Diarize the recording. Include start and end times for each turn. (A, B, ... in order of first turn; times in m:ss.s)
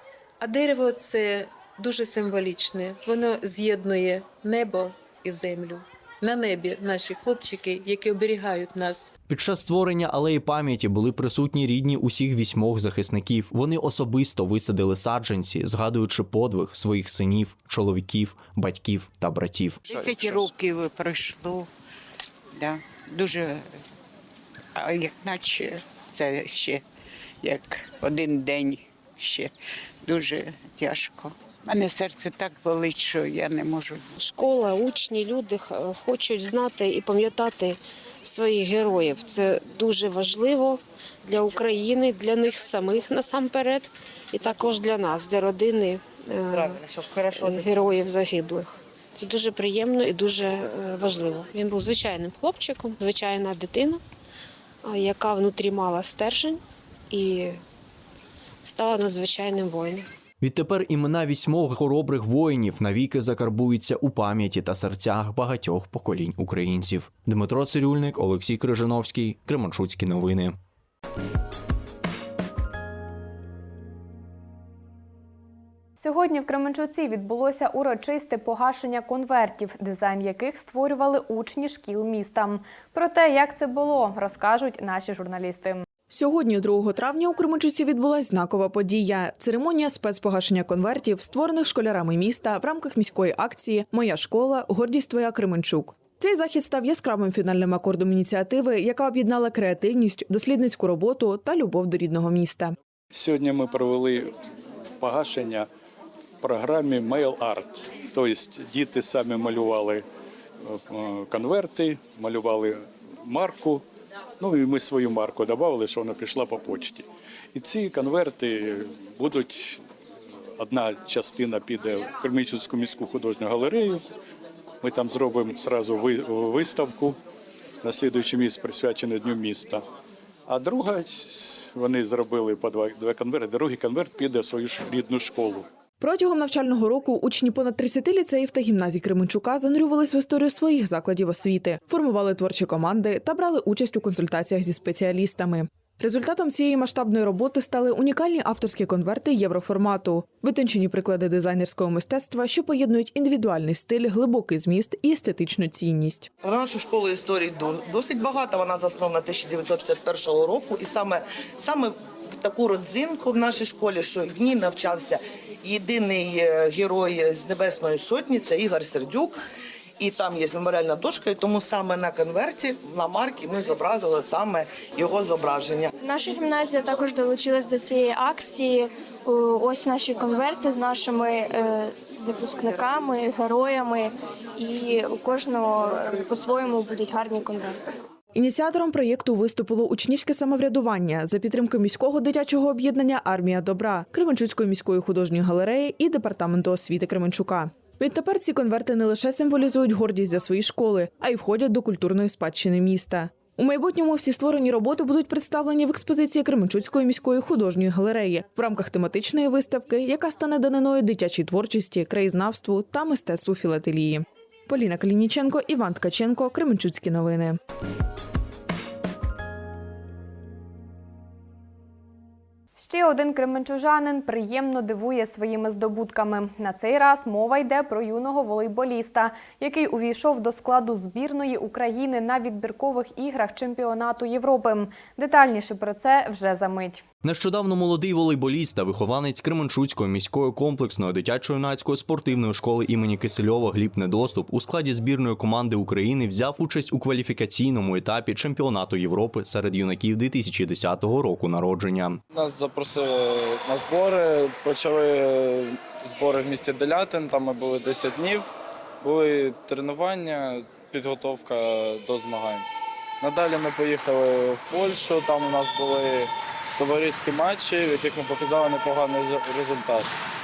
0:00.4-0:09.1 A
0:00.5-0:01.1 B
0:09.3-0:19.9 C
0:19.9-0:21.7 D
0:22.6-0:23.6 D
0:24.8-0:26.8 D
0:27.4-0:29.5 D
0:30.0-0:34.0 D
0:34.2-0:54.0 E
0:54.8-0:56.6 E
0:57.1-0:57.6 E
0:58.6-1:00.1 E
1:00.4-1:10.6 C
1:16.0-1:25.8 F
1:26.1-1:42.8 G
1:43.1-1:44.3 H
1:45.0-1:45.7 H
1:46.4-1:50.0 H
1:50.7-1:53.8 H
1:54.4-1:59.8 H
2:00.6-2:04.1 H
2:04.8-2:07.2 H
2:07.8-2:09.8 H
2:10.5-2:15.7 H
2:16.0-2:36.3 G
2:36.4-2:49.4 I
2:50.0-2:55.9 I
2:56.0-3:07.8 B
3:08.4-3:37.6 G
3:42.8-3:57.0 F
3:57.2-4:12.2 C
4:12.3-4:22.7 H
4:23.2-4:30.1 H